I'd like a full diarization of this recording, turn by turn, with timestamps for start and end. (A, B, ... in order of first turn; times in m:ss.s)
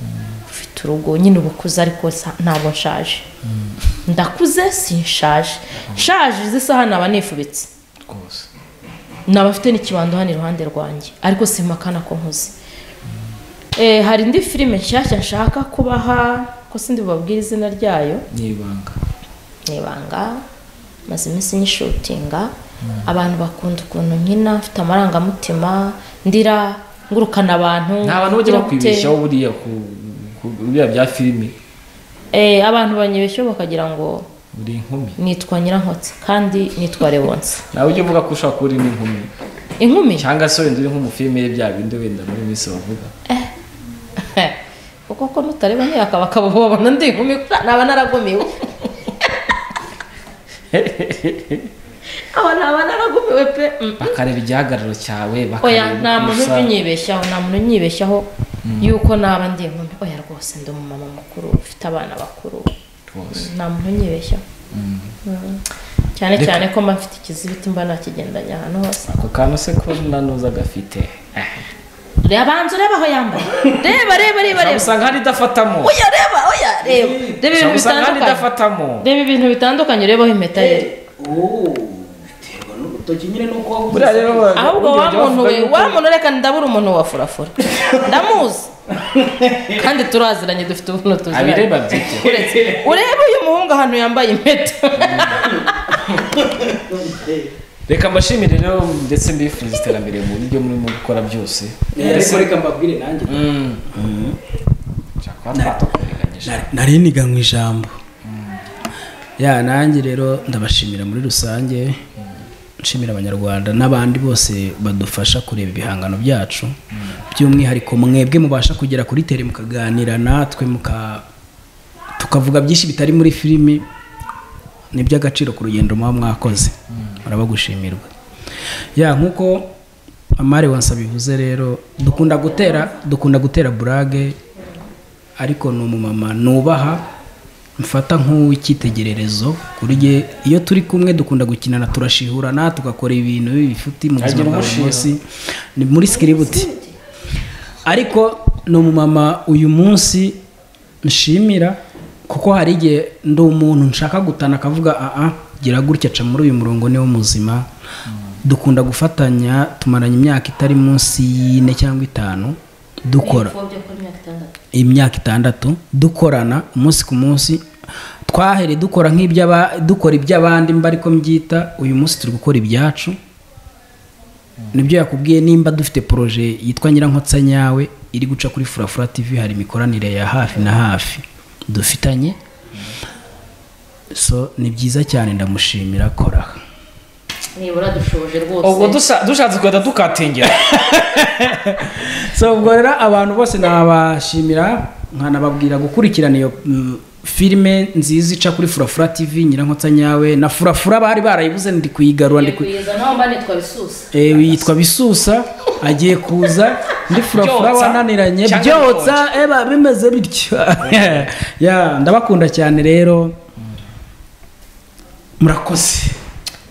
0:00.5-0:03.3 A
0:03.4-0:03.8 B
0:04.1-0:07.7 A
0:08.1-0:08.5 B
0:09.3-0:12.6 A
0:13.8-0:18.3 A
0:18.3-0:19.0 B
0:19.7-0:20.4 A
0:21.1-0:22.5 A
0:23.0-0:29.1 A
0:28.0-0:31.6 B
0:32.3-0:34.3 A
0:34.5-0:35.2 B
0:35.2-0:37.6 A
0:37.7-0:39.3 B
0:39.8-0:40.3 A
0:40.2-0:43.1 B
0:44.2-0:44.6 A
0:45.1-0:49.5 A
0:50.7-0:51.7 B
0:52.2-0:54.2 A
0:54.0-0:56.7 B
0:55.6-0:58.3 A
0:58.6-0:58.9 B
0:58.8-1:02.7 A
1:03.1-1:03.5 B
1:03.3-1:04.4 A
1:04.7-1:05.2 B
1:05.2-1:05.6 A
1:06.2-1:09.1 A
1:06.4-1:06.6 B
1:09.1-1:11.7 B
1:12.2-1:15.1 A
1:14.5-1:16.0 B
1:15.8-1:18.4 A
1:16.8-1:17.4 C
1:17.4-1:19.1 B
1:19.0-1:20.9 A
1:20.6-1:24.6 C
1:23.9-1:26.0 B
1:24.6-1:28.7 A
1:29.0-1:29.8 C
1:29.7-1:35.7 A
1:31.3-1:32.6 B
1:32.4-1:32.9 C
1:35.0-1:35.5 B
1:35.9-1:37.5 C
1:37.9-1:42.5 B
1:42.0-1:44.4 C
1:43.3-1:44.0 B
1:45.2-1:46.7 B
1:45.5-1:45.9 C
1:46.4-1:48.0 C
1:48.2-1:48.6 B
1:49.4-1:52.0 C
1:52.8-2:01.3 C
2:02.2-2:03.8 C
2:04.9-2:08.1 C
2:09.0-2:09.7 C
2:10.4-2:14.4 C
2:15.4-2:17.0 C
2:17.8-2:25.2 C
2:24.2-2:25.1 B
2:25.8-2:26.7 C
2:26.1-2:27.0 A
2:27.8-2:30.4 C
2:31.0-2:37.7 C
2:38.4-2:43.6 C
2:43.2-2:44.6 A
2:44.7-2:47.6 C
2:48.3-2:53.2 C
2:54.7-3:02.4 C
3:04.1-3:06.6 C
3:07.6-3:09.0 A
3:08.6-3:11.0 B
3:10.5-3:22.7 C
3:22.3-3:24.1 A
3:24.1-3:33.4 C
3:24.3-3:24.7 B
3:27.1-3:29.3 B
3:30.8-3:31.3 B
3:35.4-3:36.2 C